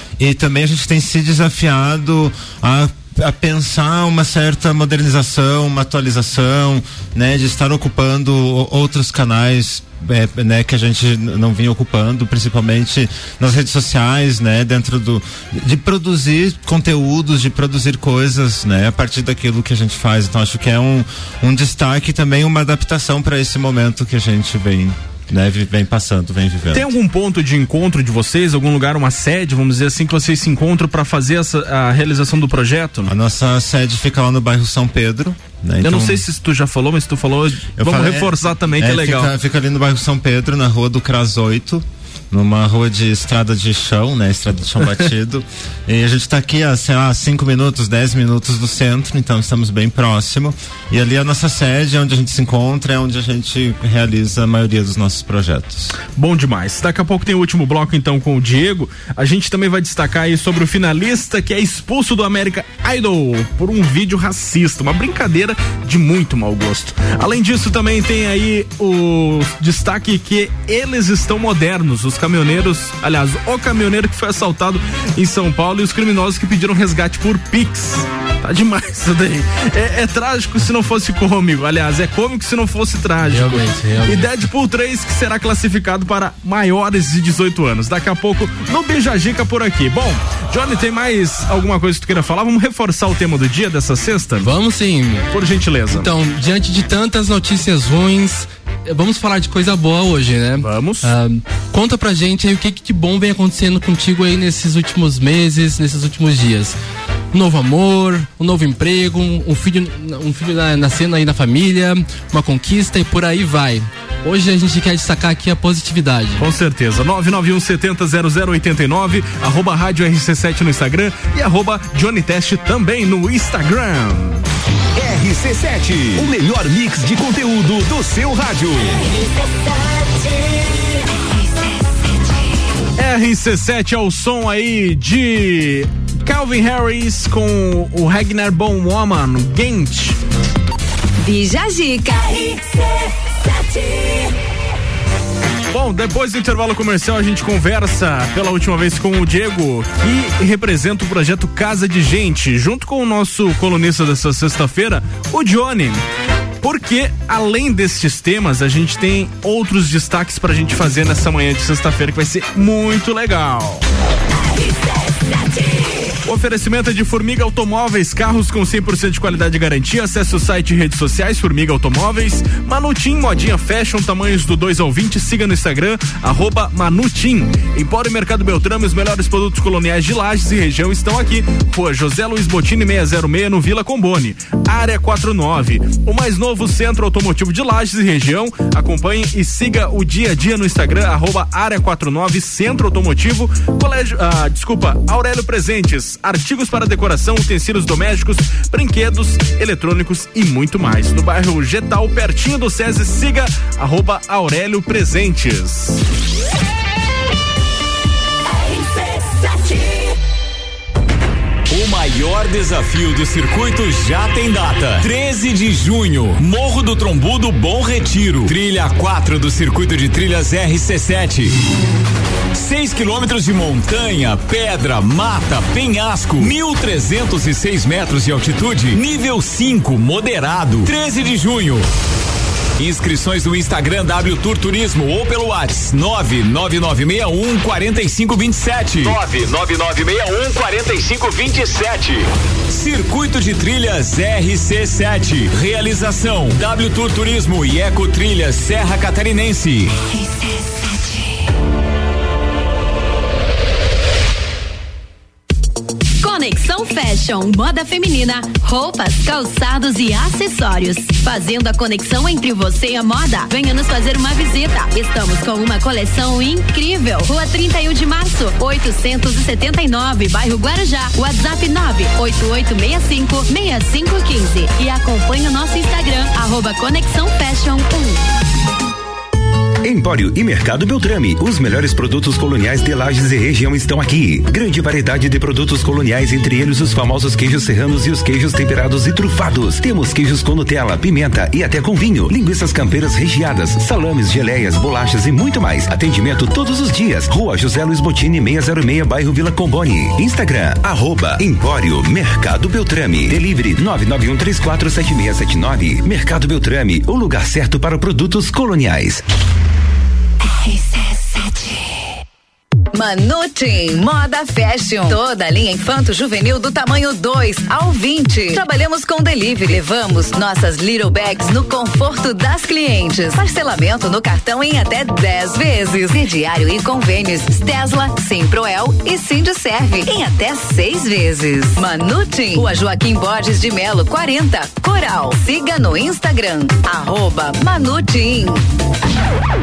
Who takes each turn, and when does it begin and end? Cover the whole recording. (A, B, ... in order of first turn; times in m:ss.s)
0:00.2-0:26.9 A
0:26.7-0:33.1 B
0:33.0-0:36.2 A
0:35.8-0:39.3 B
0:37.8-0:55.9 A
0:56.1-1:34.5 B
1:23.2-1:24.4 C
1:34.4-1:35.3 C
1:35.3-1:36.1 B
1:35.9-1:46.8 C
1:40.6-1:41.1 B
1:47.3-1:56.4 C
1:56.4-2:04.4 B
2:05.0-2:09.0 D
2:13.0-2:20.2 B
2:25.7-2:36.0 B
2:36.6-2:43.8 B
2:46.2-3:26.0 B
3:31.7-3:41.5 E
3:42.5-3:51.8 E
3:52.8-4:09.9 E
4:16.2-4:38.2 F
4:39.8-5:09.2 G
5:12.9-5:38.6 H